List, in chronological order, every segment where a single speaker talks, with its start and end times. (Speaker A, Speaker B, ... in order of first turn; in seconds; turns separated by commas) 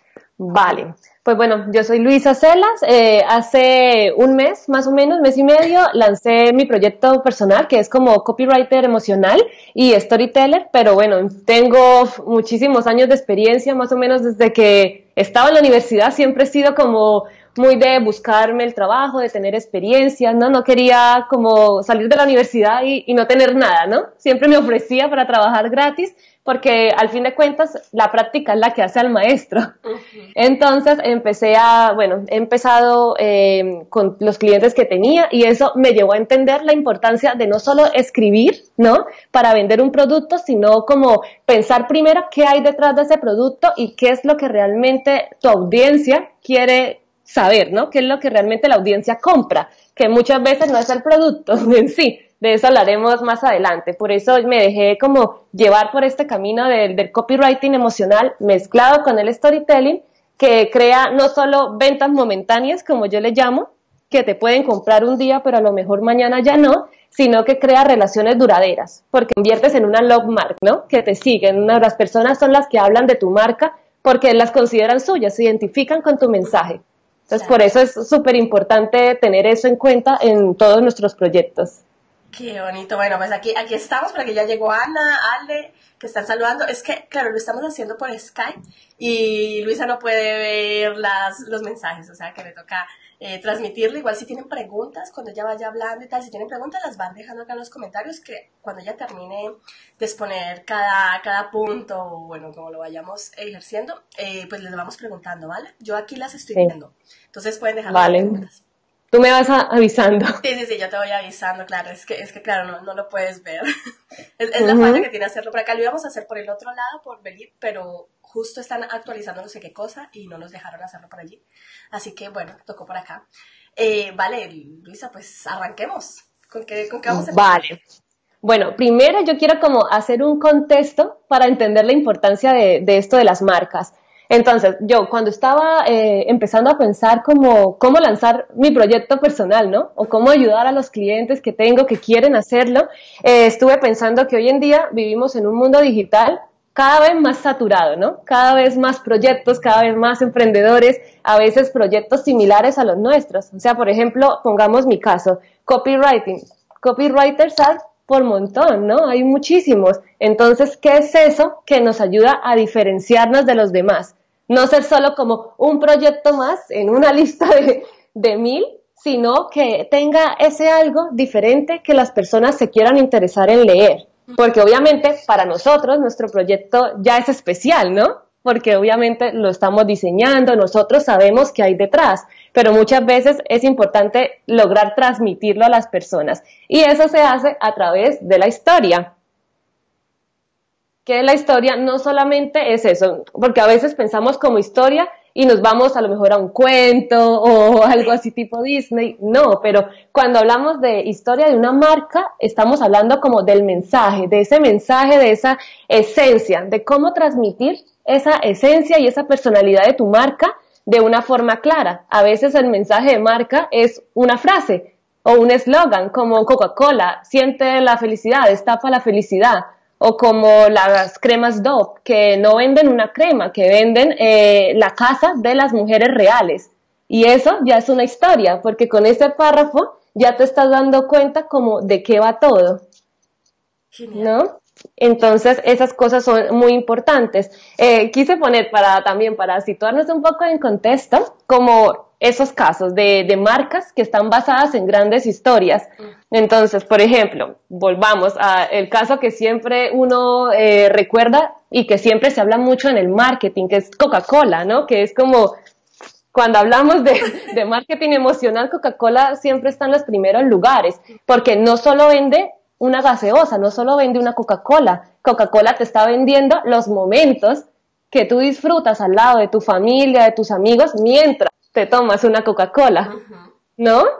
Speaker A: 0.4-29.7, Speaker B: 29.8-30.3, Speaker A: 30.4-81.8, Speaker B: 77.3-77.6, Speaker B: 82.3-108.6, Speaker A: 107.9-108.4, Speaker A: 109.1-110.4, Speaker B: 110.4-113.7, Speaker B: 114.4-127.7, Speaker A: 114.6-115.0, Speaker A: 127.1-127.8, Speaker A: 128.4-189.1, Speaker A: 191.1-232.8, Speaker B: 233.9-234.3, Speaker A: 234.1-255.5, Speaker A: 256.3-273.1, Speaker B: 273.0-273.5, Speaker A: 273.8-274.1